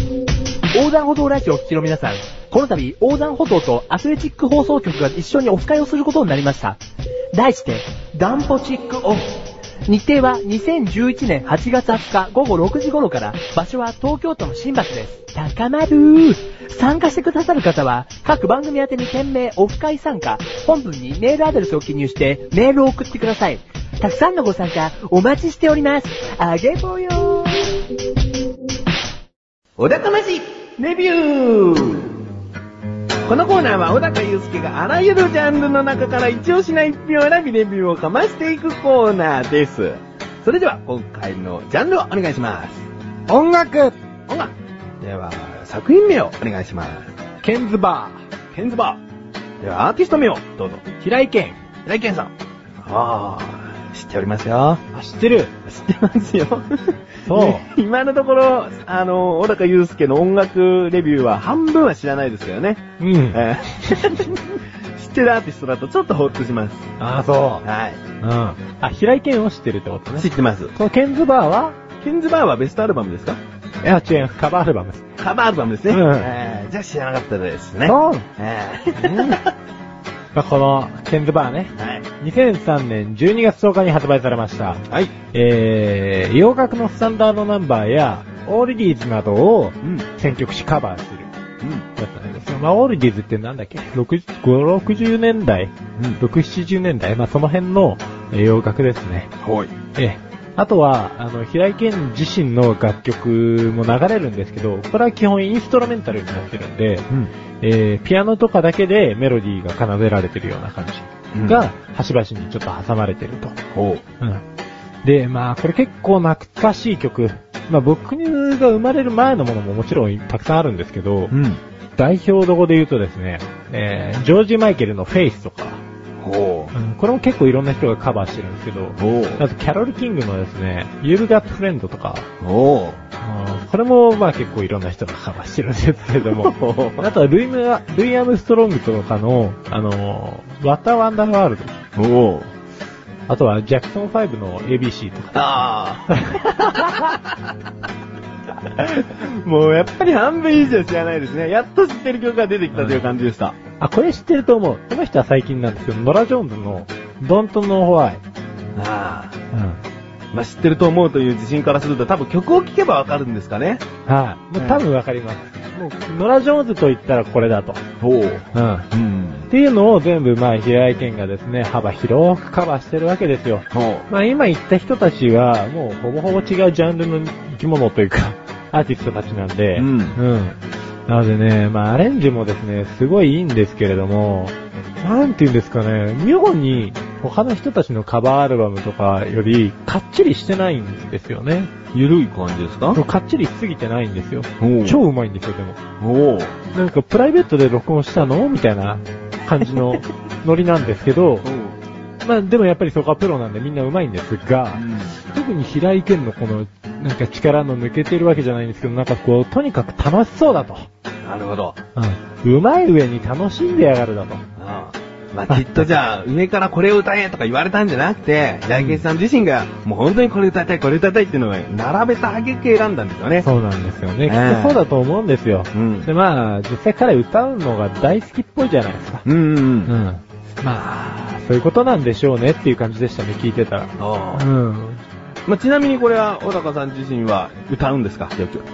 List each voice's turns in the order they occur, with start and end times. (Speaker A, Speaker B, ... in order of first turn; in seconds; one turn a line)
Speaker A: 0.7-6.8
Speaker A: 7.3-9.3
Speaker A: 9.9-27.8
Speaker B: 29.8-32.1
Speaker B: 33.3-42.9
Speaker C: 43.3-44.0
Speaker B: 44.3-47.1
Speaker C: 47.4-48.2
Speaker B: 48.5-49.0
Speaker B: 49.6-50.8
Speaker C: 51.0-51.6
Speaker B: 51.9-54.8
Speaker C: 54.9-55.5
Speaker B: 55.6-66.9
Speaker C: 57.2-57.7
Speaker C: 63.0-64.2
Speaker C: 67.0-67.7
Speaker B: 67.6-68.0
Speaker C: 68.2-71.8
Speaker B: 70.1-70.7
Speaker B: 72.0-73.4
Speaker C: 73.8-75.1
Speaker B: 75.2-79.5
Speaker C: 75.9-76.3
Speaker C: 77.8-78.3
Speaker C: 79.0-79.4
Speaker C: 80.3-91.3
Speaker B: 81.8-82.0
Speaker B: 84.9-85.1
Speaker B: 89.8-90.1
Speaker B: 91.6-91.9
Speaker C: 92.0-99.3
Speaker B: 99.4-99.7
Speaker C: 100.0-107.1
Speaker C: 107.6-113.6
Speaker B: 111.3-111.7
Speaker B: 113.7-114.0
Speaker C: 115.0-121.3
Speaker B: 121.3-121.6
Speaker C: 122.0-125.8
Speaker B: 126.2-126.7
Speaker C: 126.7-132.3
Speaker B: 129.0-129.4
Speaker B: 132.4-133.0
Speaker C: 133.2-141.7
Speaker B: 136.2-137.1
Speaker B: 142.0-142.5
Speaker C: 143.3-145.5
Speaker B: 145.3-147.5
Speaker C: 146.1-147.1
Speaker B: 148.7-153.6
Speaker C: 152.7-153.1
Speaker C: 153.8-158.2
Speaker B: 158.8-159.4
Speaker C: 159.5-159.8
Speaker B: 160.3-163.8
Speaker C: 164.1-167.8
Speaker B: 164.6-164.8
Speaker B: 168.0-169.5
Speaker C: 168.5-168.9
Speaker C: 169.5-191.7
Speaker B: 173.7-174.1
Speaker B: 179.8-180.2
Speaker B: 191.9-193.0
Speaker C: 192.9-195.8
Speaker B: 194.6-195.0
Speaker B: 196.0-196.6
Speaker C: 196.7-201.5
Speaker B: 201.4-201.8
Speaker C: 202.2-210.9
Speaker B: 204.7-205.1
Speaker B: 211.2-211.8
Speaker C: 212.0-214.4
Speaker B: 214.6-223.5
Speaker C: 215.5-215.9
Speaker C: 218.8-219.0
Speaker C: 223.4-229.2
Speaker B: 224.3-224.8
Speaker B: 225.7-226.1
Speaker B: 229.2-229.9
Speaker C: 229.9-235.0
Speaker B: 234.0-234.5
Speaker B: 235.5-238.7